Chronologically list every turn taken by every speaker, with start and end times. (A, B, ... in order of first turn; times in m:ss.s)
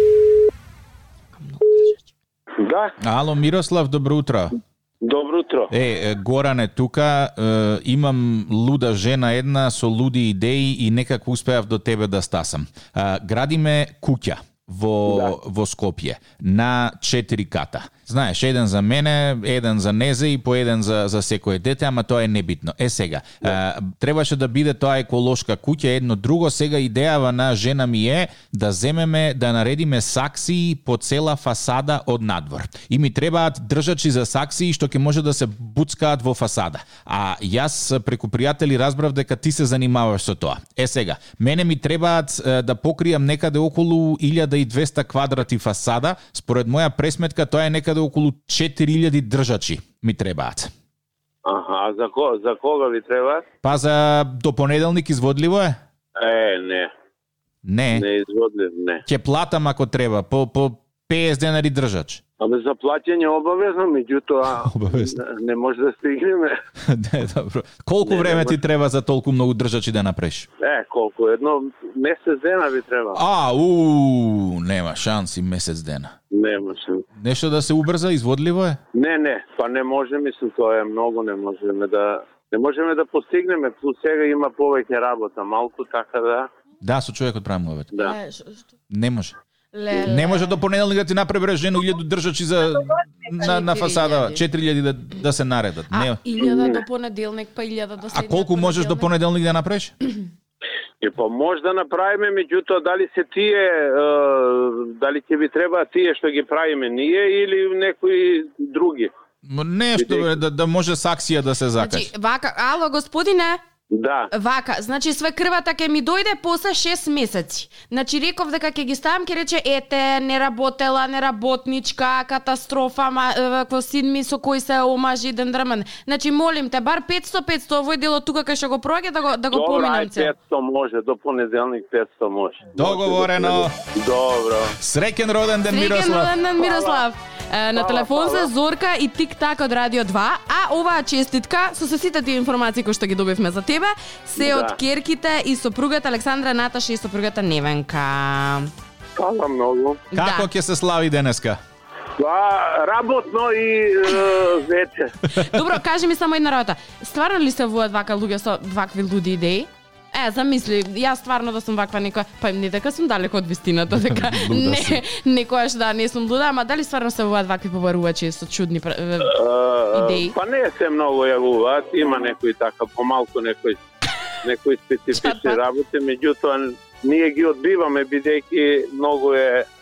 0:01.4-0:02.0 A
0:02.6-0:02.9 B
0:03.0-0:04.6 C
0:05.0-0:05.7 B
0:05.7-0:50.7 C
0:15.1-0:15.3 B
0:51.4-0:53.5 B
0:53.6-0:55.8 C
0:56.2-0:56.9 B
0:57.6-0:58.0 C
0:57.9-0:59.0 B
0:59.1-1:02.2 C
1:02.4-1:06.6 B
1:04.7-1:05.2 C
1:06.8-1:10.5 C
1:08.0-1:08.6 B
1:10.6-1:13.2 B
1:13.2-1:16.1 C
1:16.3-1:17.0 B
1:17.2-1:18.8 C
1:18.9-1:26.5 B
1:26.8-1:27.9 C
1:28.0-1:28.6 A
1:28.9-1:29.4 C
1:29.7-1:30.6 A
1:29.9-1:36.2 C
1:33.3-1:34.4 A
1:35.9-1:39.1 A
1:36.4-1:36.8 B
1:38.0-1:39.9 C
1:41.0-1:49.1 B
1:49.4-1:52.1 C
1:50.0-1:50.3 B
1:51.8-1:53.6 A
1:53.9-1:54.3 B
1:54.3-2:10.3 A
2:09.5-2:14.8 B
2:12.8-2:13.7 C
2:14.8-2:16.3 C
2:15.7-2:28.7 A
2:16.6-2:17.0 B
2:17.8-2:18.5 B
2:24.4-2:24.8 B
2:29.2-2:30.0 B
2:30.1-2:30.5 A
2:30.2-2:31.6 C
2:32.2-2:35.2 B
2:35.3-2:49.4 A
2:43.9-2:45.0 C
2:49.3-2:53.8 B
2:49.9-2:50.4 A
2:54.4-2:59.7 B
2:55.1-2:55.6 A